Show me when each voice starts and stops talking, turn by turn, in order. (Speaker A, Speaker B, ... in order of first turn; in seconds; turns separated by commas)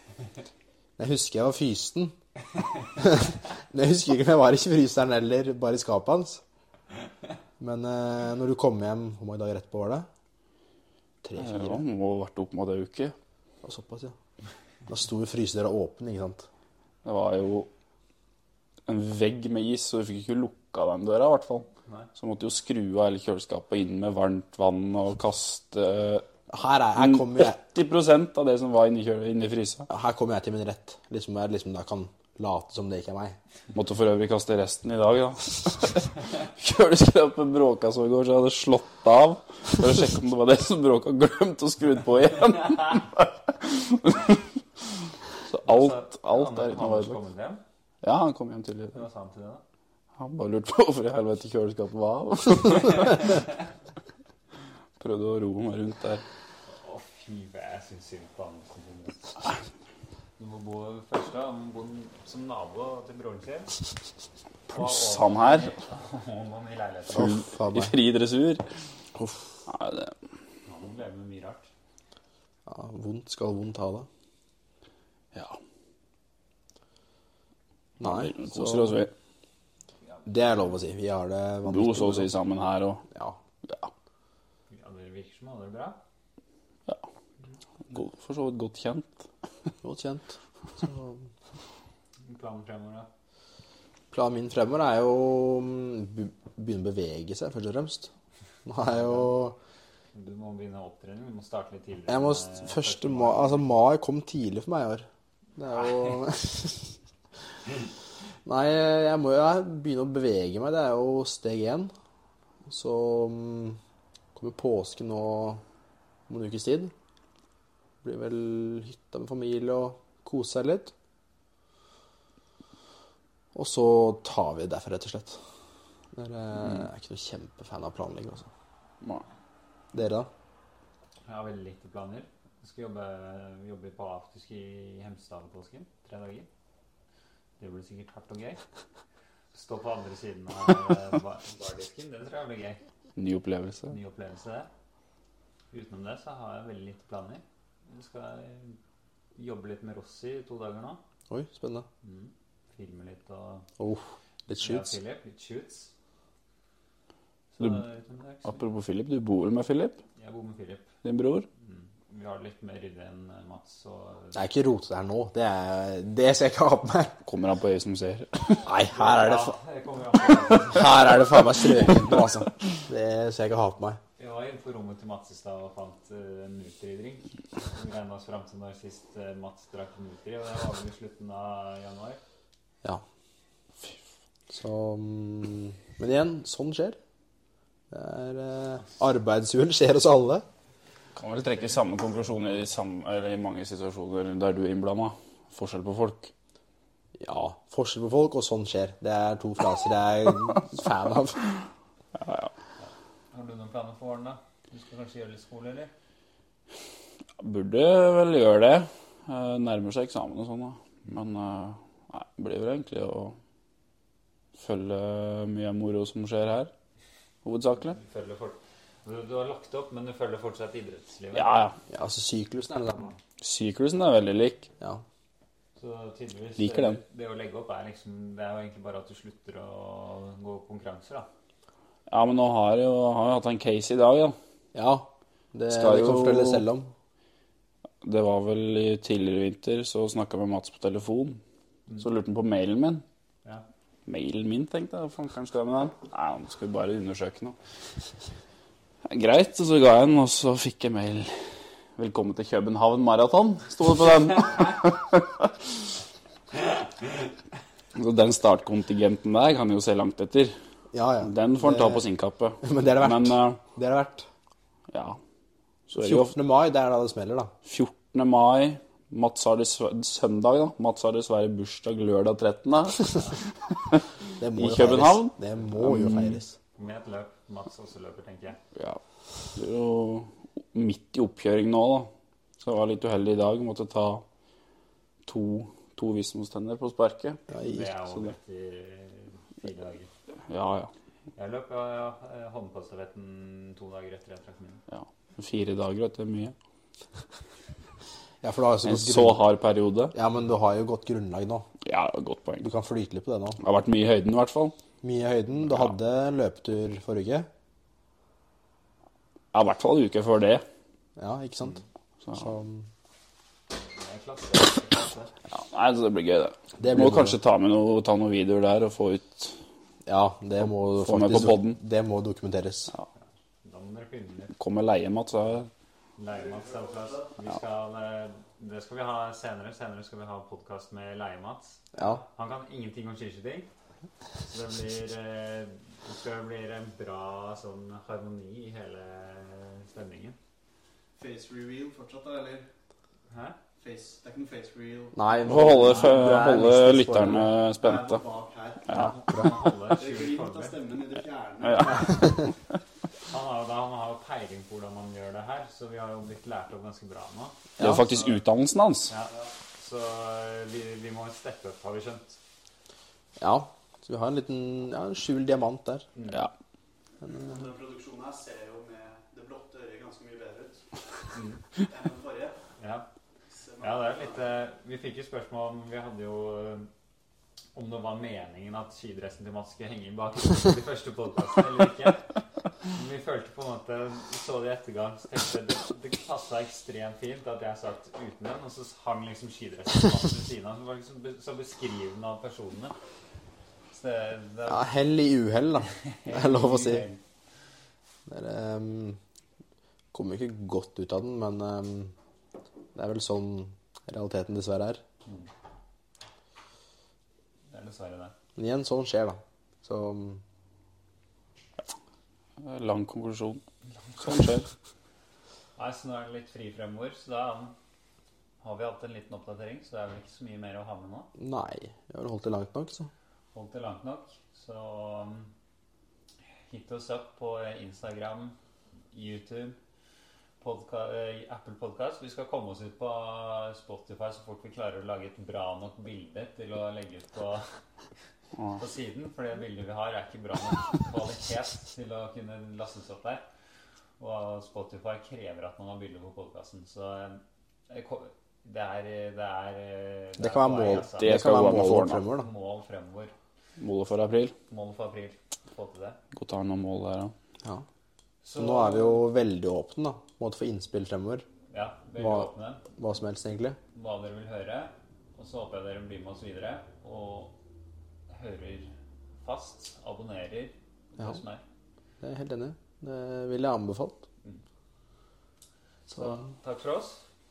Speaker A: 1.0-2.1, Speaker A: 3.0-6.4, Speaker A: 7.6-10.1, Speaker A: 11.2-11.8, Speaker B: 11.4-13.1, Speaker A: 13.6-14.1, Speaker A: 14.9-16.4, Speaker B: 17.0-17.7, Speaker B: 18.9-26.3, Speaker A: 26.5-27.6, Speaker B: 26.9-29.9, Speaker A: 29.9-33.4, Speaker B: 33.7-44.4, Speaker B: 45.5-47.2, Speaker C: 45.6-47.6, Speaker B: 48.0-49.0, Speaker C: 48.9-49.6, Speaker B: 50.2-53.4, Speaker B: 55.0-56.2, Speaker C: 56.7-59.6, Speaker C: 60.4-63.7, Speaker B: 64.7-65.7, Speaker C: 64.7-67.3, Speaker B: 67.1-68.6, Speaker A: 67.1-67.9, Speaker B: 69.7-70.1, Speaker C: 70.7-71.7, Speaker A: 72.7-74.1, Speaker B: 78.0-79.1, Speaker A: 78.0-79.0, Speaker A: 80.2-82.3, Speaker B: 81.7-83.0, Speaker A: 83.1-83.4, Speaker B: 83.6-83.9, Speaker C: 84.7-86.0, Speaker B: 87.9-89.1, Speaker A: 89.8-91.2, Speaker C: 92.2-93.1, Speaker A: 94.1-98.1, Speaker A: 98.7-99.6, Speaker C: 99.0-99.2, Speaker C: 100.1-103.7, Speaker A: 102.1-106.9, Speaker A: 108.5-111.9, Speaker A: 112.7-113.8, Speaker A: 114.3-115.6, Speaker A: 116.3-116.9, Speaker A: 118.0-120.9, Speaker A: 123.5-125.4, Speaker A: 126.1-128.5, Speaker A: 129.9-130.3, Speaker C: 131.3-136.5, Speaker C: 137.6-138.6, Speaker C: 139.5-142.8, Speaker B: 143.2-143.9, Speaker C: 143.9-144.7, Speaker C: 145.7-148.8, Speaker C: 149.3-151.0, Speaker A: 151.3-151.8, Speaker C: 152.0-153.7, Speaker A: 153.8-154.9, Speaker C: 154.6-155.9, Speaker C: 157.5-158.6, Speaker B: 158.4-160.0, Speaker C: 160.2-160.9, Speaker B: 161.0-161.4, Speaker C: 161.6-164.4, Speaker A: 164.3-167.2, Speaker B: 167.2-168.7, Speaker A: 168.6-169.6, Speaker C: 168.8-171.2, Speaker A: 170.7-174.0, Speaker C: 174.2-182.2, Speaker A: 184.5-187.0, Speaker A: 187.9-190.4, Speaker B: 191.2-196.3, Speaker A: 197.2-201.5, Speaker B: 202.2-202.5, Speaker C: 202.8-205.9, Speaker B: 207.4-213.4, Speaker B: 214.6-216.7, Speaker B: 217.4-218.0, Speaker C: 217.9-221.7, Speaker B: 221.3-221.7, Speaker A: 221.9-223.2, Speaker B: 223.4-224.7, Speaker C: 225.8-231.3, Speaker B: 226.6-227.0, Speaker B: 232.1-234.3, Speaker A: 234.7-236.9, Speaker B: 235.7-236.6, Speaker B: 238.0-241.4, Speaker B: 242.0-243.0, Speaker B: 244.1-247.6, Speaker B: 249.0-251.4, Speaker B: 251.9-255.5, Speaker B: 257.9-260.5, Speaker A: 260.9-262.0, Speaker B: 261.2-263.6, Speaker A: 262.6-264.3, Speaker B: 264.9-265.2, Speaker B: 265.9-266.3, Speaker A: 265.9-267.5, Speaker B: 267.6-273.1, Speaker A: 274.4-276.6, Speaker B: 274.6-276.4, Speaker C: 276.8-278.6, Speaker B: 279.5-284.2, Speaker B: 285.2-287.4, Speaker C: 287.5-290.1, Speaker B: 290.5-290.9, Speaker C: 291.4-294.8, Speaker B: 294.9-296.5, Speaker A: 298.4-299.4, Speaker B: 298.8-300.1, Speaker A: 300.1-301.7, Speaker B: 301.8-302.7, Speaker A: 302.6-303.6, Speaker B: 303.6-304.7, Speaker A: 305.0-307.5, Speaker B: 309.5-310.6, Speaker A: 311.2-311.8, Speaker A: 312.3-312.9, Speaker C: 313.7-315.3, Speaker B: 315.5-319.6, Speaker A: 316.8-317.4, Speaker A: 320.0-322.9, Speaker B: 320.8-321.8, Speaker C: 323.6-324.5, Speaker B: 324.6-325.7, Speaker C: 326.2-333.7, Speaker D: 326.3-327.3, Speaker A: 331.9-332.2, Speaker C: 334.4-340.4, Speaker D: 341.2-342.7, Speaker C: 343.3-343.6, Speaker D: 343.8-345.4, Speaker A: 345.1-347.5, Speaker B: 345.4-348.2, Speaker D: 347.8-349.1, Speaker C: 348.9-350.8, Speaker D: 349.9-352.4, Speaker B: 351.6-352.2, Speaker C: 353.3-358.4, Speaker B: 357.8-359.1, Speaker C: 359.1-362.4, Speaker A: 363.4-366.1, Speaker C: 366.1-366.5, Speaker D: 367.2-370.8, Speaker C: 371.3-371.6, Speaker D: 371.8-372.6, Speaker C: 372.8-373.1, Speaker D: 373.5-374.4, Speaker C: 373.8-376.9, Speaker C: 377.7-382.3, Speaker C: 382.8-392.9, Speaker C: 393.9-394.9, Speaker A: 394.7-397.1, Speaker C: 396.0-397.2, Speaker A: 398.3-399.2, Speaker A: 400.1-402.1, Speaker A: 402.9-405.0, Speaker C: 407.7-408.3, Speaker A: 408.6-410.4, Speaker B: 412.6-413.6, Speaker B: 414.2-414.7, Speaker C: 415.8-417.7, Speaker C: 418.6-421.3, Speaker A: 421.4-423.1, Speaker C: 423.5-425.5, Speaker C: 426.7-428.6, Speaker C: 429.1-429.8, Speaker C: 430.6-437.7, Speaker C: 438.8-443.4, Speaker C: 444.2-451.5, Speaker A: 450.4-452.5, Speaker B: 451.2-452.2, Speaker C: 452.3-453.3, Speaker B: 453.8-454.5, Speaker C: 454.7-456.2, Speaker B: 456.3-457.3, Speaker C: 458.4-459.3, Speaker A: 458.5-461.4, Speaker C: 461.7-462.8, Speaker A: 462.2-463.8, Speaker C: 463.9-467.6, Speaker C: 468.3-468.9, Speaker C: 469.4-471.6, Speaker A: 472.2-474.2, Speaker C: 476.1-477.2